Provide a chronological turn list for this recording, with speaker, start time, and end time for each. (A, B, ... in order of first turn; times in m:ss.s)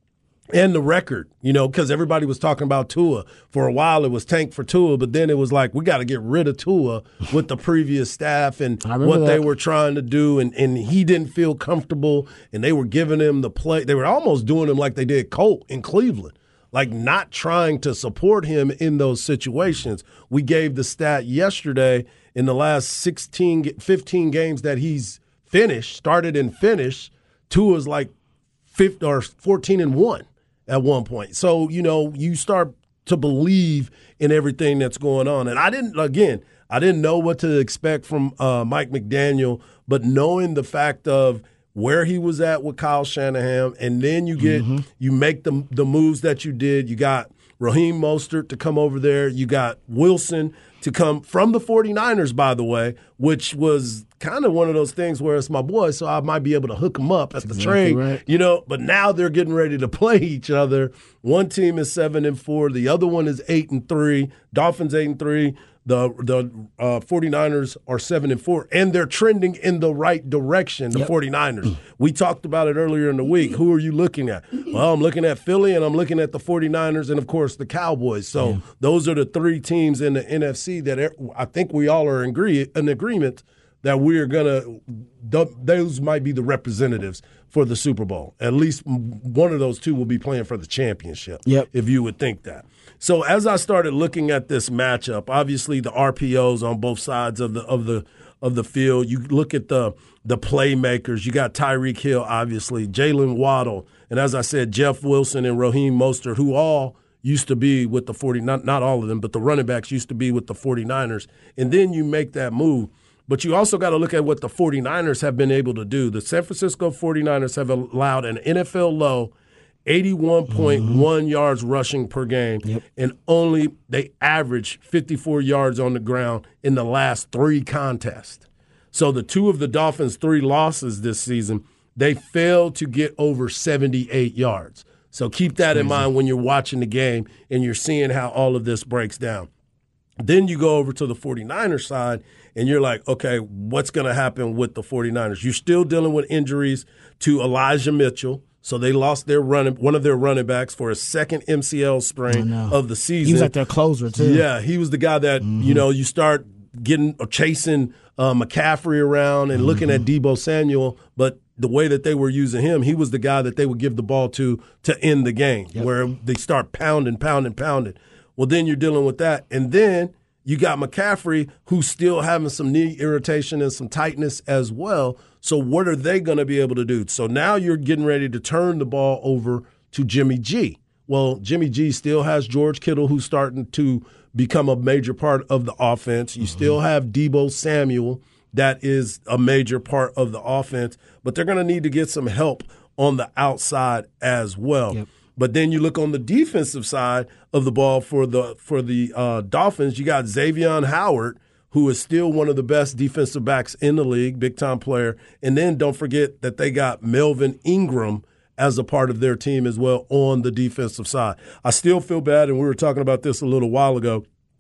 0:00.5-0:28.1 A
0:08.8-0:09.4 B
0:28.7-1:59.3 A
0:44.4-0:44.8 B
0:57.5-0:58.2 B
1:59.9-2:19.5 A
2:00.5-2:01.0 B
2:15.7-2:16.0 B
2:20.2-2:33.5 A
2:32.3-2:34.4 B
2:34.2-3:34.2 A
2:35.4-2:35.8 B
2:39.6-2:39.9 B
3:06.4-3:06.7 B